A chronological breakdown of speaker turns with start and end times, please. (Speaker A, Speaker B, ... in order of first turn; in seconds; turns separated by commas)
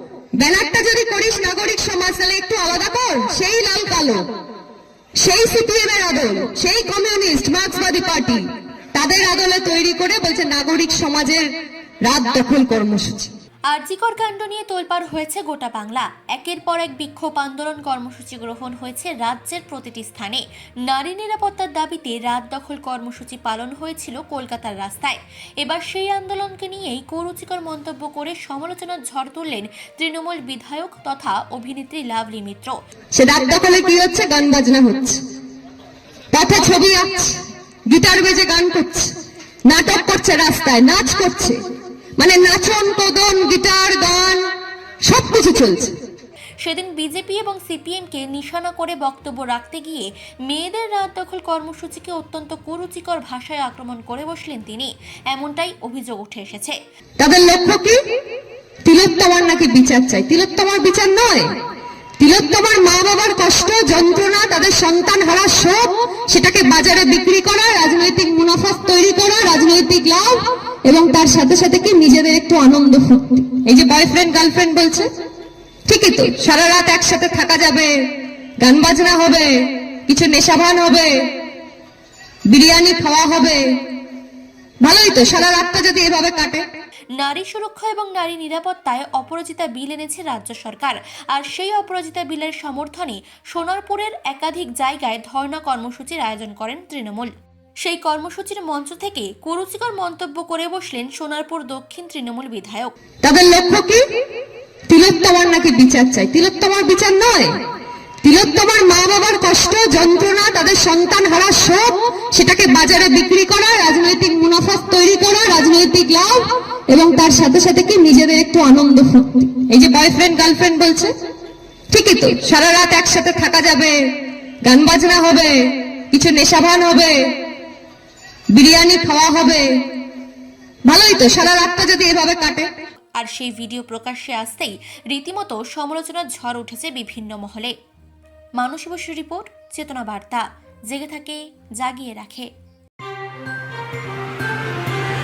Speaker A: 0.4-4.2, Speaker A: 5.2-8.4, Speaker A: 8.9-11.5, Speaker A: 12.0-13.3, Speaker B: 13.7-32.8, Speaker A: 33.2-35.2, Speaker A: 36.3-37.3, Speaker A: 37.9-39.1, Speaker A: 39.7-41.5, Speaker A: 42.2-44.4, Speaker A: 45.0-45.9, Speaker B: 46.6-56.8, Speaker A: 57.2-58.0, Speaker A: 58.8-61.5, Speaker A: 62.2-75.1, Speaker A: 75.9-77.9, Speaker A: 78.6-79.5, Speaker A: 80.1-81.1, Speaker A: 82.5-83.6, Speaker A: 84.8-86.6, Speaker B: 87.2-97.3, Speaker B: 97.8-102.9, Speaker A: 103.2-104.0, Speaker A: 104.9-107.5, Speaker A: 108.2-121.1, Speaker A: 121.9-123.9, Speaker A: 124.6-125.6, Speaker A: 126.1-127.2, Speaker A: 128.5-129.7, Speaker A: 130.9-132.7, Speaker B: 133.2-137.7, Speaker B: 138.6-142.5